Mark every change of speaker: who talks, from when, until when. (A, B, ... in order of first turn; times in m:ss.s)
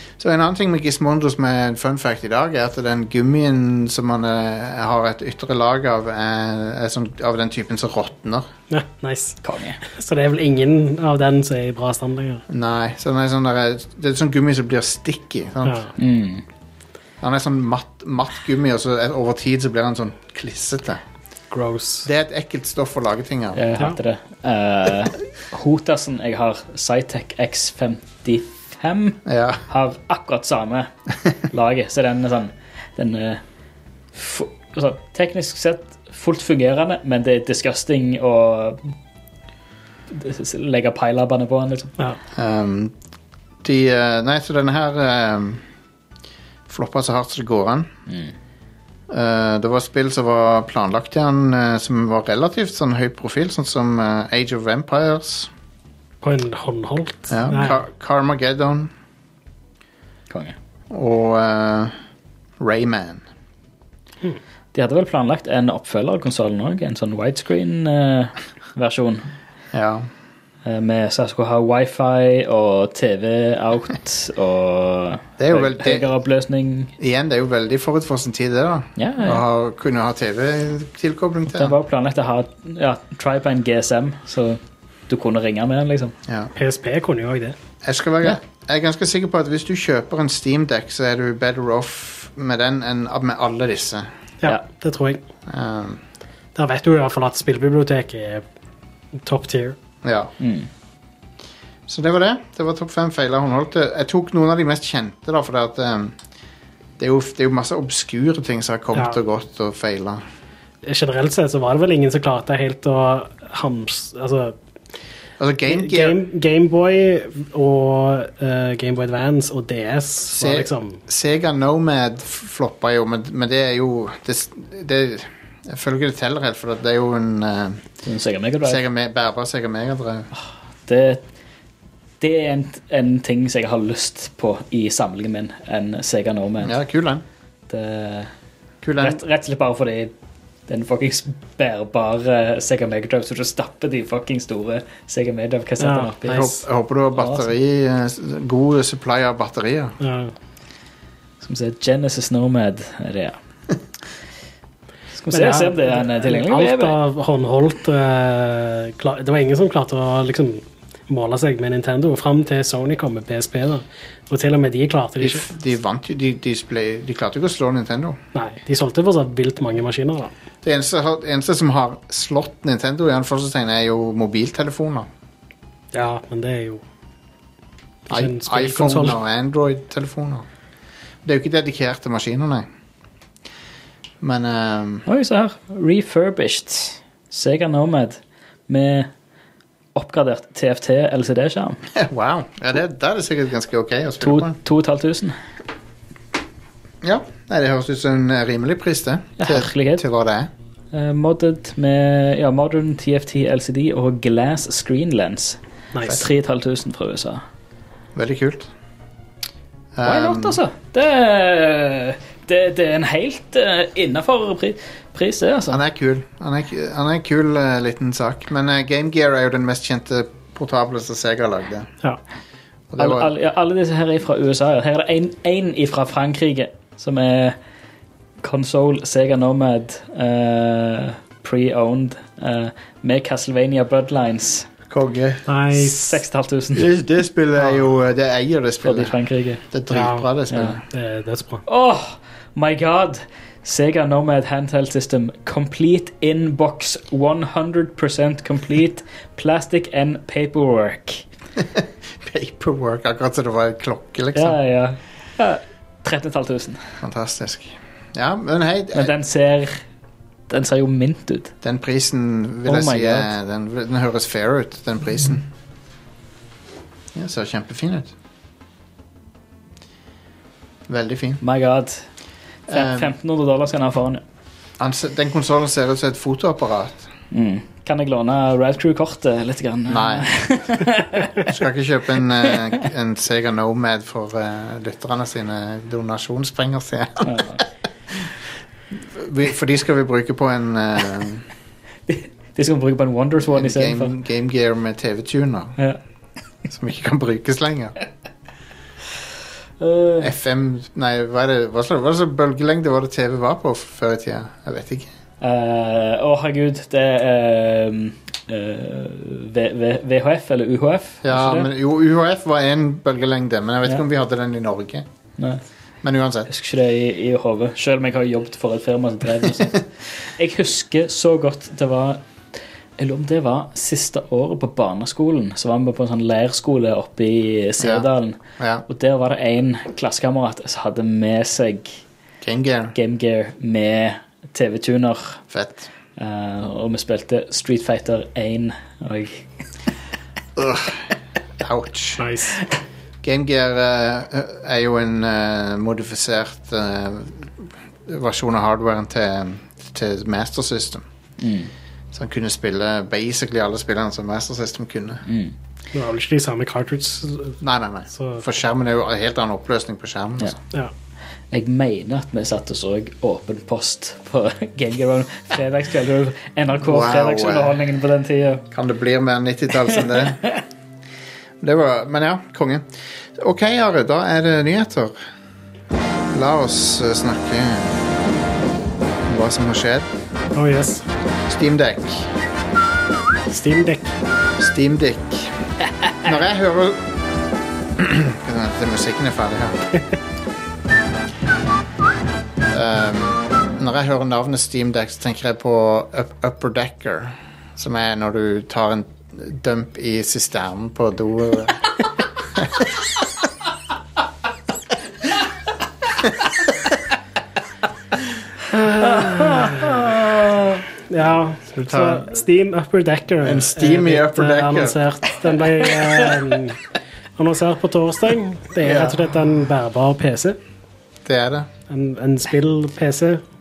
0:00.2-0:08.5 A
0:08.7-0:12.4 B
0:09.4-0:09.8 C
0:12.5-0:15.9 A
0:15.7-0:15.9 B
0:16.0-0:16.4 C
0:17.2-0:21.0 A
0:21.5-0:22.1 B
0:22.0-0:23.6 A
0:23.6-0:30.9 C
0:29.3-0:29.6 A
0:31.5-0:33.4 C
0:34.2-0:38.9 C
0:40.1-0:41.9 C
0:42.4-0:42.9 A
0:43.6-0:45.6 A
0:46.7-0:47.9 A
0:49.1-0:55.5 A
0:56.2-0:57.8 B
0:57.3-0:58.9 A
1:00.3-1:00.6 C
1:00.9-1:01.9 A
1:02.6-1:03.2 A
1:04.7-1:09.3 C
1:09.7-1:10.1 A
1:10.6-1:16.9 C
1:15.4-1:16.1 A
1:17.0-1:21.8 A
1:19.0-1:19.4 C
1:21.6-1:26.2 C
1:26.3-1:26.5 A
1:26.6-1:27.6 B
1:27.8-1:34.1 A
1:34.4-1:35.2 B
1:35.5-1:36.0 A
1:36.6-1:38.4 B
1:39.2-1:39.8 B
1:40.0-1:40.3 A
1:40.4-1:40.7 C
1:41.9-1:46.2 A
1:47.0-1:50.2 A
1:50.8-1:54.6 B
1:55.4-1:56.2 A
1:55.7-2:01.0 B
2:00.3-2:07.8 A
2:08.0-2:08.8 C
2:08.6-2:10.3 A
2:10.3-2:11.2 C
2:12.2-2:16.8 C
2:16.6-2:17.2 A
2:17.7-2:18.3 C
2:18.8-2:19.2 A
2:19.0-2:20.1 C
2:20.7-2:26.5 C
2:25.8-2:26.6 B
2:26.3-2:30.0 A
2:27.2-2:27.5 C
2:30.0-2:30.3 B
2:31.4-2:33.4 C
2:35.2-2:37.0 C
2:35.3-2:45.5 B
2:45.2-2:48.2 A
2:48.3-2:50.3 B
2:50.6-2:55.1 A
2:55.9-2:56.8 B
2:58.1-2:59.2 B
2:58.1-3:00.4 A
3:01.2-3:02.7 A
3:04.2-3:05.1 A
3:05.1-3:08.2 C
3:08.7-3:09.1 C
3:10.0-3:11.8 C
3:12.0-3:14.6 A
3:14.2-3:15.4 C
3:17.0-3:20.5 A
3:19.4-3:20.0 C
3:20.9-3:27.4 C
3:25.9-3:26.2 B
3:28.2-3:28.7 A
3:30.0-3:30.6 A
3:30.0-3:35.8 C
3:35.7-3:41.9 A
3:42.9-3:43.3 A
3:43.0-3:47.6 C
3:48.4-3:54.7 C
3:54.9-3:55.4 A
3:55.5-3:56.2 B
3:55.7-3:56.9 C
3:56.7-3:59.1 A
3:58.8-3:59.6 C
3:59.7-4:00.8 A
3:59.9-4:00.3 B
4:00.5-4:00.8 C
4:00.9-4:01.6 B
4:01.7-4:11.2 C
4:11.6-4:14.6 A
4:14.4-4:16.8 C
4:17.0-4:19.1 A
4:19.0-4:19.8 C
4:20.5-4:21.5 C
4:21.6-4:25.5 A
4:22.7-4:23.3 C
4:27.1-4:28.1 A
4:30.9-4:31.4 A
4:31.4-4:32.1 C
4:32.7-4:34.2 C
4:32.7-4:33.1 A
4:34.8-4:37.1 A
4:37.3-4:41.4 C
4:39.9-4:40.3 A
4:41.5-4:47.6 A
4:47.3-4:47.6 C
4:49.1-4:51.5 A
4:52.1-4:54.1 C
4:53.5-4:55.8 A
4:56.7-4:58.0 A
4:59.8-5:00.3 C
5:00.2-5:05.1 A
5:05.4-5:11.7 C
5:11.2-5:15.1 A
5:16.0-5:16.5 A
5:16.5-5:22.2 C
5:23.0-5:32.0 C
5:27.8-5:28.1 A
5:28.6-5:28.8 A
5:32.4-5:32.9 A
5:33.0-5:35.4 C
5:35.5-5:35.9 A
5:36.2-5:39.5 C
5:40.6-5:41.1 A
5:41.6-5:42.2 A
5:42.2-5:42.6 B
5:43.2-5:51.1 A
5:51.4-5:51.7 C
5:52.1-5:55.2 A
5:55.3-5:55.5 C
5:55.9-5:57.6 B
5:57.6-6:00.5 A
5:58.1-5:58.4 B
6:01.5-6:08.6 C
6:06.8-6:07.8 A
6:08.7-6:10.4 A
6:10.1-6:10.6 C
6:11.6-6:15.2 A
6:16.3-6:18.1 A
6:19.3-6:20.1 A
6:20.6-6:21.1 B
6:21.5-6:22.3 A
6:23.5-6:24.1 B
6:24.6-6:25.6 A
6:26.2-6:27.1 A
6:28.0-6:29.9 A
6:32.7-6:41.8 A
6:42.6-6:42.9 A
6:48.7-6:56.8 B
6:51.8-6:52.3 A
6:53.4-6:55.0 A
6:57.4-7:00.6 B
6:58.8-6:59.2 A
7:01.2-7:01.7 A
7:01.9-7:03.4 B